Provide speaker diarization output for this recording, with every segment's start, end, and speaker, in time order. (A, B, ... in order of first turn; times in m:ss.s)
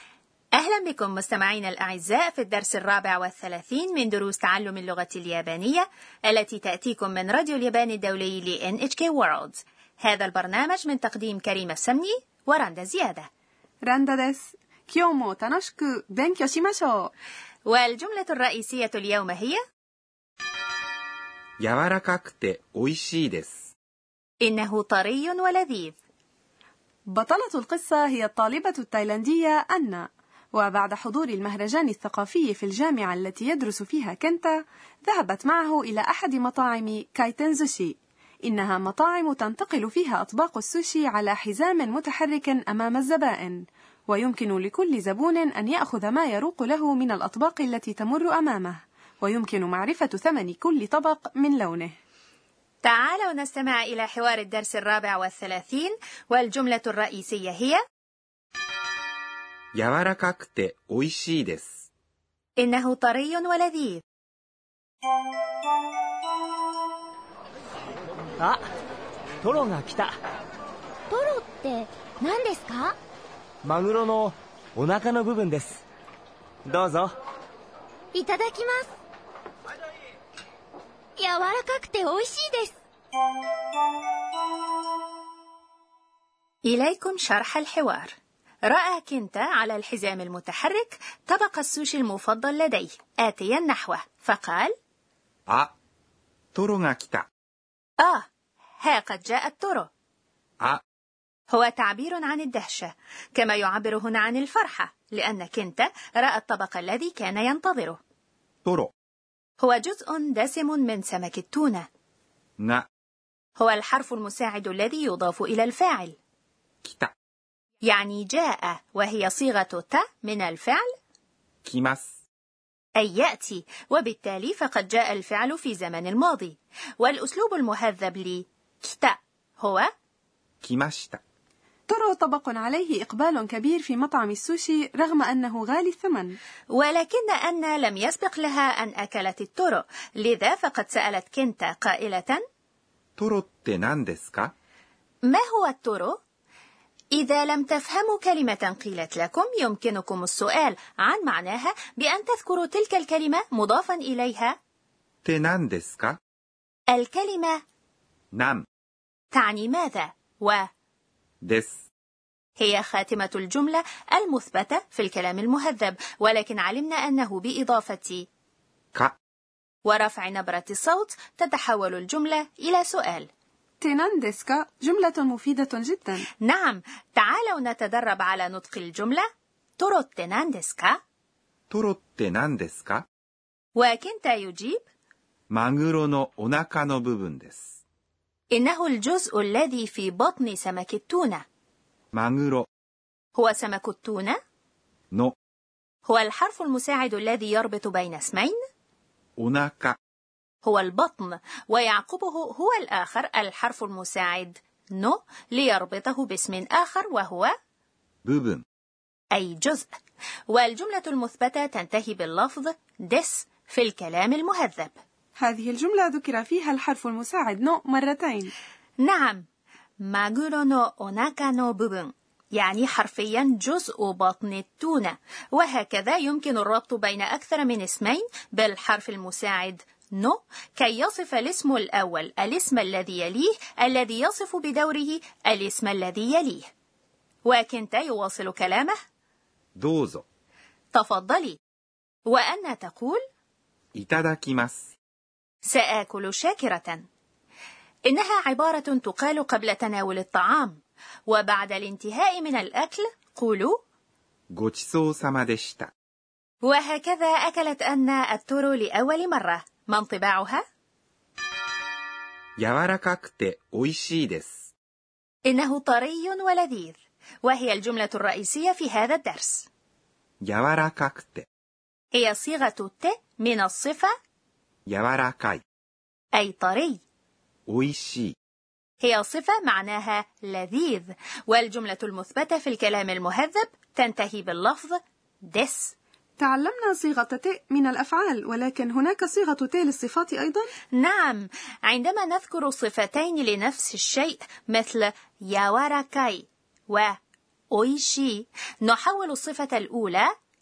0:00.6-0:13.3 A
0:13.8-0:17.1 B
0:17.7-0:19.6 A
0:21.6-0:23.7 C
0:24.4-0:26.0 A
0:27.1-0:51.9 B
0:52.8-0:57.8 A
0:59.7-1:01.9 C
1:02.6-1:04.0 A
1:09.4-1:10.2 D
1:11.1-1:13.0 E
1:13.6-1:15.8 D
1:16.7-1:17.2 D
1:18.1-1:18.9 E
1:21.2-1:22.7 E
1:26.6-1:28.1 A
1:28.7-1:34.7 A
1:36.5-1:37.3 C
1:38.0-1:38.3 A
1:38.8-1:39.9 A
1:41.5-1:48.0 A
1:48.6-1:48.9 C
1:49.6-1:51.9 A
1:52.6-1:52.8 C
1:53.6-1:56.2 A
1:56.8-1:57.1 C
1:57.8-2:00.9 A
2:01.6-2:02.2 C
2:03.0-2:09.9 A
2:10.6-2:11.2 C
2:11.9-2:16.4 B
2:16.7-2:22.4 A
2:23.2-2:24.5 C
2:25.2-2:26.2 A
2:27.1-2:34.5 A
2:35.2-2:36.2 C
2:36.9-2:37.6 A
2:38.3-2:38.7 C
2:39.3-2:40.6 A
2:41.4-2:41.8 C
2:42.6-2:48.2 A
2:49.8-2:53.3 A
2:53.8-2:56.2 B
2:56.4-2:59.2 A
2:59.8-3:01.0 A
3:01.7-3:03.0 C
3:03.8-3:04.8 A
3:05.5-3:07.7 C
3:08.5-3:11.4 A
3:12.1-3:12.7 C
3:13.4-3:14.4 A
3:16.0-3:18.6 A
3:19.4-3:20.0 C
3:20.6-3:27.5 A
3:28.2-3:28.6 C
3:29.3-3:29.9 A
3:30.5-3:34.9 A
3:35.4-3:38.5 B
3:39.0-3:39.4 A
3:40.0-3:56.7 A
3:57.4-3:58.9 A
3:59.8-4:00.2 C
4:00.9-4:01.6 A
4:02.3-4:03.2 A
4:03.9-4:04.9 C
4:05.6-4:07.0 A
4:08.1-4:13.8 A
4:14.5-4:15.9 C
4:16.6-4:20.6 A
4:22.6-4:24.7 C
4:25.4-4:29.7 A
4:30.4-4:31.5 C
4:32.1-4:34.1 A
4:34.9-4:35.6 C
4:36.3-4:37.0 A
4:37.7-4:38.3 C
4:39.0-4:45.9 A
4:46.4-4:50.7 B
4:50.9-4:57.2 A
4:57.7-5:00.3 A